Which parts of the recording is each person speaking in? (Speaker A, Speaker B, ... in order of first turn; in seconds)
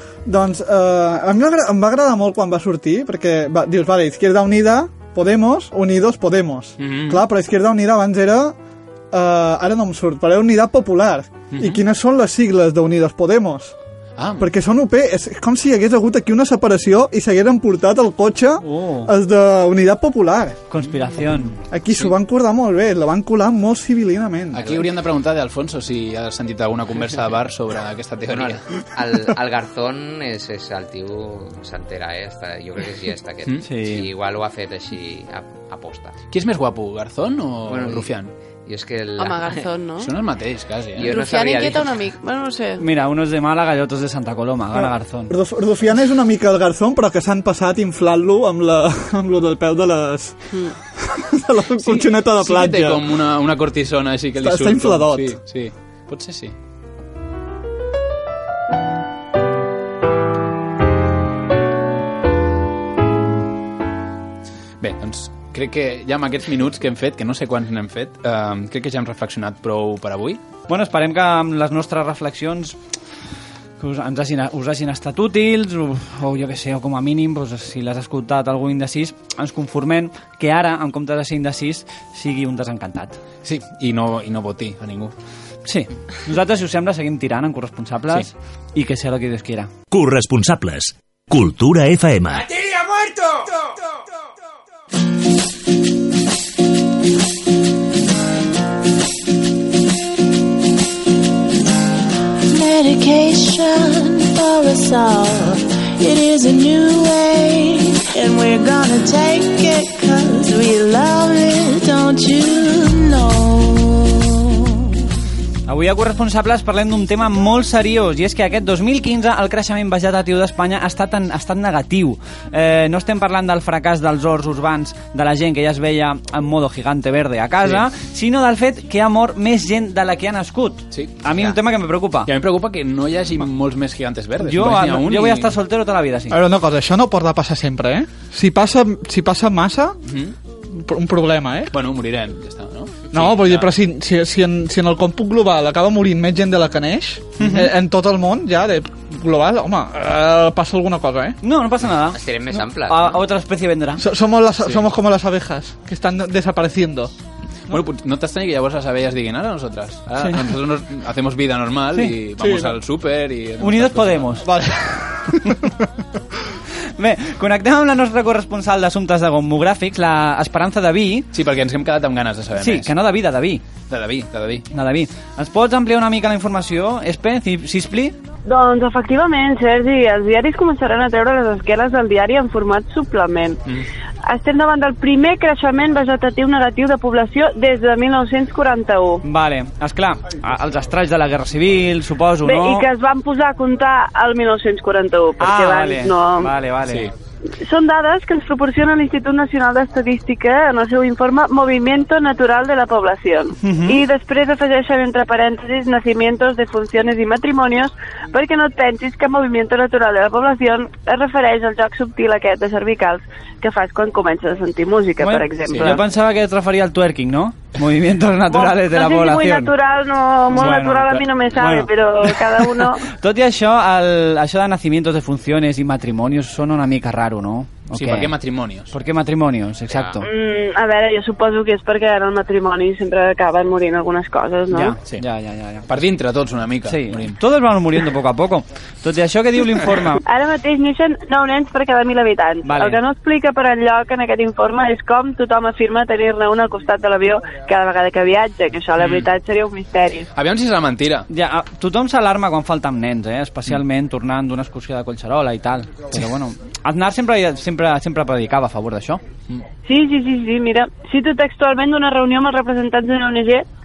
Speaker A: 0.3-8.6, 9.1-13.8, 14.4-20.6, 21.7-24.7, 44.8-50.4, 51.0-53.0, 54.4-55.4, 136.3-140.0, 140.7-141.7, 143.1-151.4, 154.0-157.1, 162.4-162.8, 164.4-165.9
Speaker B: 6.8-7.2, 11.5-11.8, 14.2-14.5, 24.5-28.6, 36.3-38.3, 40.0-41.1, 51.8-56.5, 64.8-70.4, 83.4-85.1, 130.9-131.6, 132.3-135.6, 140.1-140.3, 141.7-143.7, 157.7-164.4, 171.3-172.9, 173.9-174.7, 215.7-216.0, 227.9-228.9, 235.9-237.4, 249.0-249.3, 250.3-251.3
Speaker C: 18.6-19.1, 20.7-21.6, 33.6-34.1, 42.8-45.3, 70.7-72.8, 73.8-83.2, 85.7-89.7, 115.7-132.3, 134.4-136.4, 147.4-147.7, 151.4-154.0, 163.6-164.5, 167.0-171.3, 172.6-173.6, 174.7-178.2, 189.2-192.9, 195.4-197.1, 203.6-204.0, 215.2-219.7, 220.5-228.3, 228.9-230.3, 234.7-235.9, 236.9-240.2, 242.7-243.0, 251.3-259.2
Speaker D: 28.3-36.2, 37.7-39.7, 41.0-41.9, 152.1-153.2, 229.9-230.3
Speaker E: 39.2-40.1, 41.0-42.8
Speaker F: 89.9-92.5
Speaker G: 102.5-115.0
Speaker H: 178.5-183.6, 184.2-189.2, 192.4-196.5, 197.6-216.0, 218.5-223.0, 230.2-235.0, 240.2-250.3, 259.9-263.6